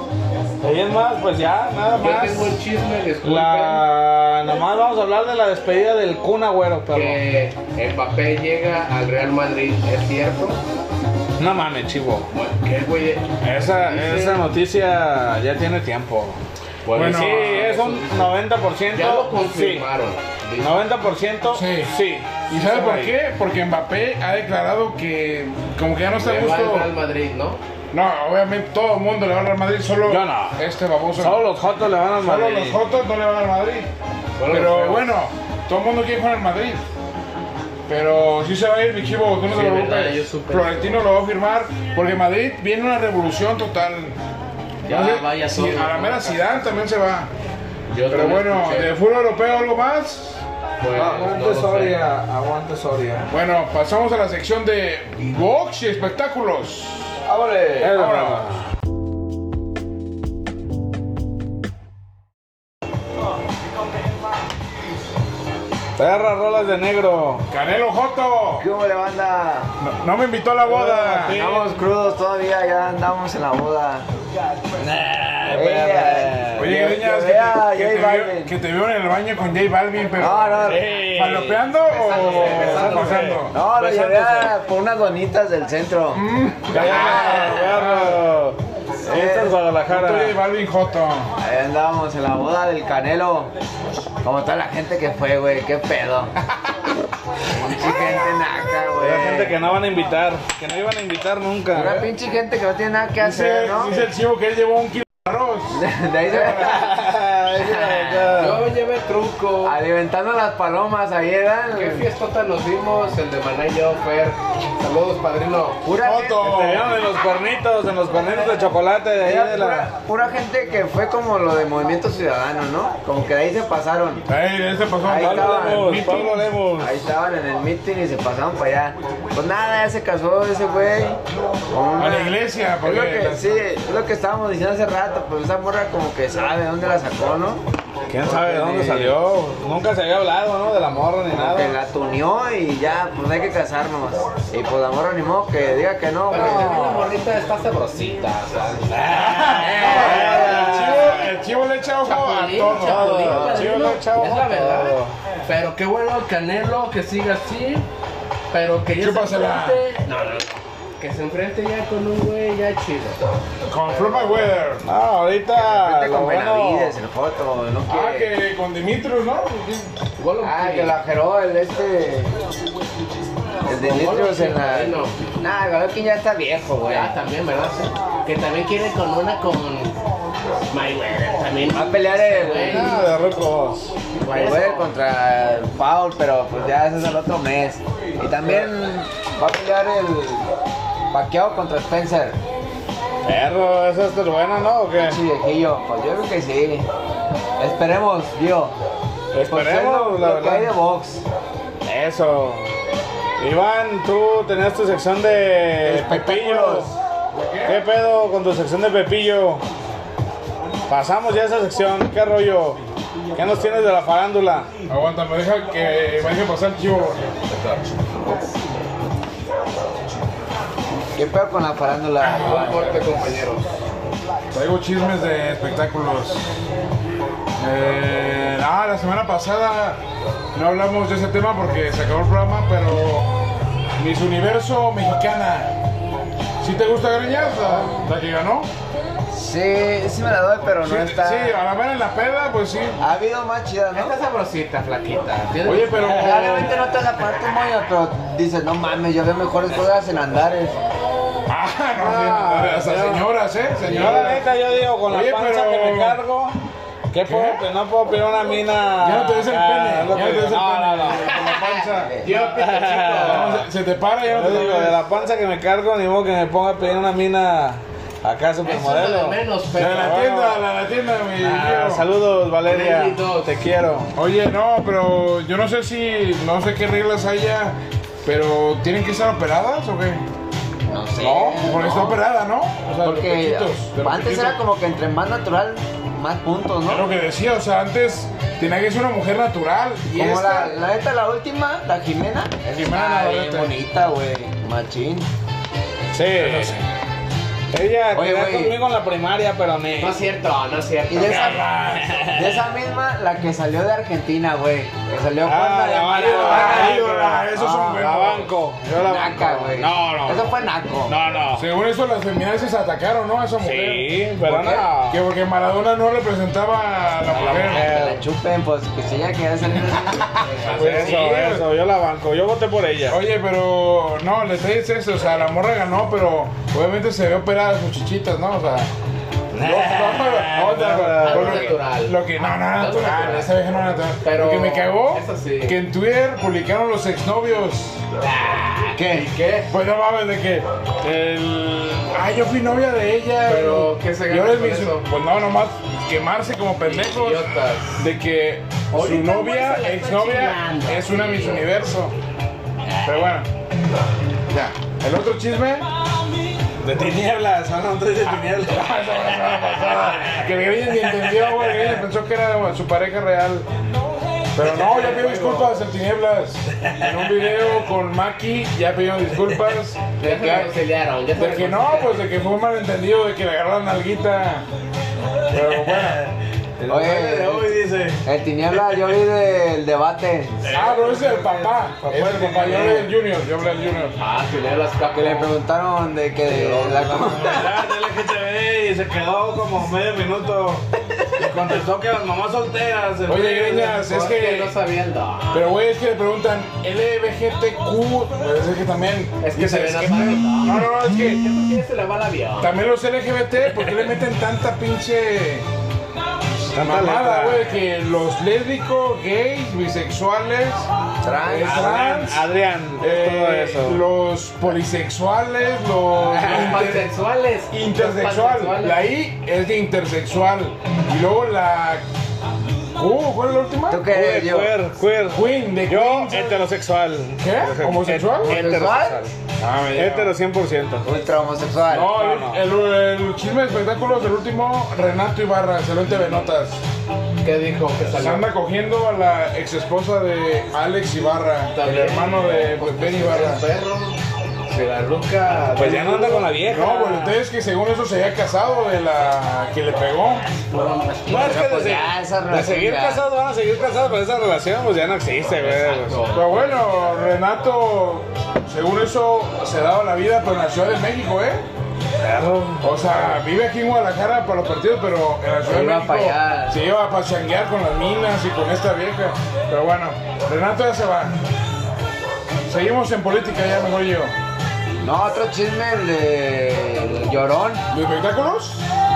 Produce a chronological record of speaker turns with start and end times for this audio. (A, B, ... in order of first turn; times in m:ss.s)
0:00.6-0:02.6 A
0:02.0-0:03.8 B
0:03.2-0:07.2 A
0:06.9-0:10.6 B
0:11.4-0:12.3 A
0:12.3-0:14.4 B
0:13.4-0:16.4 A
0:16.8-0:18.3 B
0:16.9-0:17.5 C
0:16.9-0:19.9 A
0:18.9-0:20.7 B
0:20.6-0:23.1 A
0:21.5-0:21.9 C
0:22.5-0:26.9 C
0:26.2-0:27.6 B
0:27.9-0:31.4 C
0:30.0-0:30.6 A
0:31.2-0:32.8 A
0:32.2-0:33.9 C
0:34.4-0:35.1 B
0:34.5-0:36.8 C
0:37.9-0:44.2 C
0:39.5-0:41.0 B
0:44.9-0:46.6 B
0:44.9-0:47.3 C
0:47.9-0:49.0 B
0:48.1-0:50.4 C
0:50.8-0:52.0 B
0:50.9-0:53.3 A
0:53.3-0:57.2 C
0:57.2-0:58.0 D
0:57.8-0:58.6 A
0:57.8-0:58.5 C
1:06.0-1:07.4 A
1:07.5-1:08.7 C
1:08.6-1:09.7 D
1:09.8-1:11.4 C
1:10.7-1:14.0 D
1:10.7-1:11.7 A
1:14.8-1:16.7 A
1:15.5-1:18.5 D
1:16.6-1:23.6 C
1:20.2-1:20.9 D
1:20.6-1:24.5 A
1:21.9-1:23.4 B
1:23.5-1:27.7 D
1:26.1-1:28.2 C
1:26.7-1:30.4 A
1:29.0-1:29.6 D
1:29.9-1:31.3 C
1:31.4-1:33.5 D
1:34.2-1:36.3 D
1:37.5-1:39.6 D
1:39.0-1:42.1 A
1:41.7-1:44.1 D
1:43.2-1:46.8 C
1:45.7-1:46.8 D
1:46.4-1:48.6 A
1:47.6-1:48.4 D
1:48.4-1:49.8 B
1:49.6-1:52.1 D
1:51.7-1:55.8 B
1:55.8-1:56.5 D
1:56.0-1:56.9 C
1:56.4-1:59.9 A
1:59.2-2:04.2 D
2:04.3-2:06.5 C
2:05.0-2:06.2 D
2:05.1-2:06.9 A
2:06.8-2:17.6 D
2:12.0-2:13.4 C
2:18.1-2:21.8 A
2:18.2-2:19.2 D
2:21.3-2:26.8 D
2:26.3-2:31.2 B
2:26.3-2:27.1 A
2:28.9-2:31.2 A
2:29.1-2:33.3 C
2:32.0-2:37.8 B
2:32.8-2:35.1 A
2:33.3-2:33.7 D
2:38.5-2:43.2 B
2:38.9-2:39.8 C
2:43.7-2:44.8 C
2:43.9-2:44.5 B
2:44.8-2:46.9 A
2:45.6-2:48.3 D
2:47.9-2:49.9 C
2:50.2-2:51.0 B
2:50.4-2:52.3 D
2:53.6-2:57.2 D
2:53.7-2:55.2 B
2:56.8-3:00.0 B
3:00.7-3:03.0 B
3:01.7-3:03.0 D
3:02.6-3:03.9 A
3:04.2-3:04.9 B
3:04.3-3:10.5 D
3:11.1-3:12.4 D
3:13.2-3:15.2 A
3:15.0-3:16.9 D
3:17.6-3:18.7 D
3:19.3-3:20.7 A
3:19.3-3:21.2 D
3:21.8-3:22.7 A
3:23.4-3:26.9 A
3:25.8-3:26.9 D
3:27.3-3:27.8 C
3:27.7-3:29.6 A
3:30.9-3:32.8 A
3:33.3-3:34.7 A
3:34.9-3:37.3 C
3:37.5-3:37.8 B
3:41.2-3:43.1 D
3:42.2-3:43.7 B
3:42.2-3:42.9 C
3:44.5-3:46.5 C
3:47.6-3:50.0 C
3:50.5-3:53.3 C
3:54.0-3:55.7 C
3:56.6-3:58.7 C
3:59.3-4:01.6 D
4:00.8-4:03.0 C
4:03.0-4:04.2 D
4:03.9-4:06.6 B
4:05.6-4:06.7 C
4:06.1-4:10.8 D
4:06.1-4:06.7 A
4:11.5-4:14.4 C
4:12.0-4:13.2 A
4:13.8-4:16.5 A
4:13.9-4:14.3 D
4:15.0-4:16.2 C
4:17.1-4:21.4 A
4:17.2-4:17.6 C
4:19.0-4:22.1 C
4:21.2-4:23.7 B
4:22.0-4:22.3 D
4:22.2-4:23.6 A
4:23.2-4:25.0 C
4:24.3-4:30.6 A
4:28.6-4:30.2 B
4:29.8-4:32.0 C
4:31.4-4:34.1 A
4:32.6-4:33.5 B
4:34.1-4:40.2 C
4:40.9-4:42.2 D
4:41.2-4:44.6 C
4:43.0-4:47.1 D
4:46.9-4:50.8 C
4:50.1-4:55.3 D
4:52.7-4:53.7 C
4:56.1-4:56.8 A
4:56.4-4:56.7 B
4:57.7-5:00.2 A
4:58.1-4:58.8 D
5:00.0-5:01.6 B
5:01.1-5:01.7 D
5:01.3-5:02.2 C
5:01.7-5:02.6 A
5:02.3-5:08.0 D
5:05.4-5:11.7 A
5:06.3-5:08.5 C
5:09.0-5:11.2 D
5:11.6-5:17.9 C
5:13.6-5:15.2 A
5:14.5-5:14.8 D
5:17.3-5:18.2 A
5:17.4-5:20.8 D
5:20.4-5:21.3 B
5:20.6-5:21.7 C
5:20.7-5:23.2 A
5:23.1-5:28.9 C
5:29.5-5:31.7 A
5:29.6-5:38.0 C
5:31.2-5:33.5 B
5:34.2-5:35.8 B
5:38.2-5:39.7 B
5:38.9-5:39.3 D
5:39.7-5:47.4 C
5:43.4-5:45.0 B
5:46.8-5:48.0 B
5:48.0-5:52.1 C
5:48.9-5:51.7 B
5:52.8-5:53.1 B
5:53.0-5:53.5 C
5:54.5-5:55.9 C
5:56.8-6:02.0 A
5:58.6-6:03.7 C
6:04.5-6:10.6 C
6:04.6-6:05.8 B
6:10.2-6:12.2 B
6:10.2-6:10.6 D
6:11.4-6:14.6 C
6:15.5-6:16.2 C
6:15.5-6:18.2 A
6:16.9-6:20.6 D
6:18.8-6:19.1 A
6:20.6-6:23.1 A
6:20.7-6:24.1 C
6:24.2-6:25.5 B
6:25.1-6:27.7 D
6:26.5-6:34.1 A
6:33.3-6:34.7 C
6:34.0-6:35.7 B
6:35.5-6:41.4 C
6:39.4-6:42.7 B
6:42.6-6:45.6 C
6:46.7-6:47.7 A
6:46.8-6:50.9 C
6:51.2-6:51.9 D
6:51.4-6:52.5 C
6:51.6-6:54.0 A
6:51.6-6:52.1 B
6:53.0-6:57.1 C
6:56.3-6:56.9 A
6:56.4-6:59.0 B
6:57.7-7:02.0 C
7:03.0-7:04.0 C
7:03.9-7:04.7 D
7:04.1-7:09.3 A
7:05.3-7:06.6 C
7:07.4-7:08.6 C
7:08.4-7:09.3 D
7:09.6-7:10.3 C
7:09.9-7:11.1 A
7:11.0-7:12.2 D
7:11.9-7:16.8 C
7:12.1-7:12.6 A
7:17.4-7:18.5 B
7:18.1-7:23.7 C
7:21.7-7:24.2 B
7:24.7-7:26.5 B
7:25.8-7:27.4 A
7:26.5-7:30.5 C
7:30.6-7:32.0 B
7:31.3-7:36.2 A
7:31.3-7:33.2 D
7:35.5-7:37.0 B
7:36.3-7:41.6 C
7:42.2-7:42.9 A
7:42.8-7:51.4 C
7:45.6-7:46.8 D
7:52.6-7:54.3 C
7:55.0-7:57.8 D
7:57.9-7:58.8 C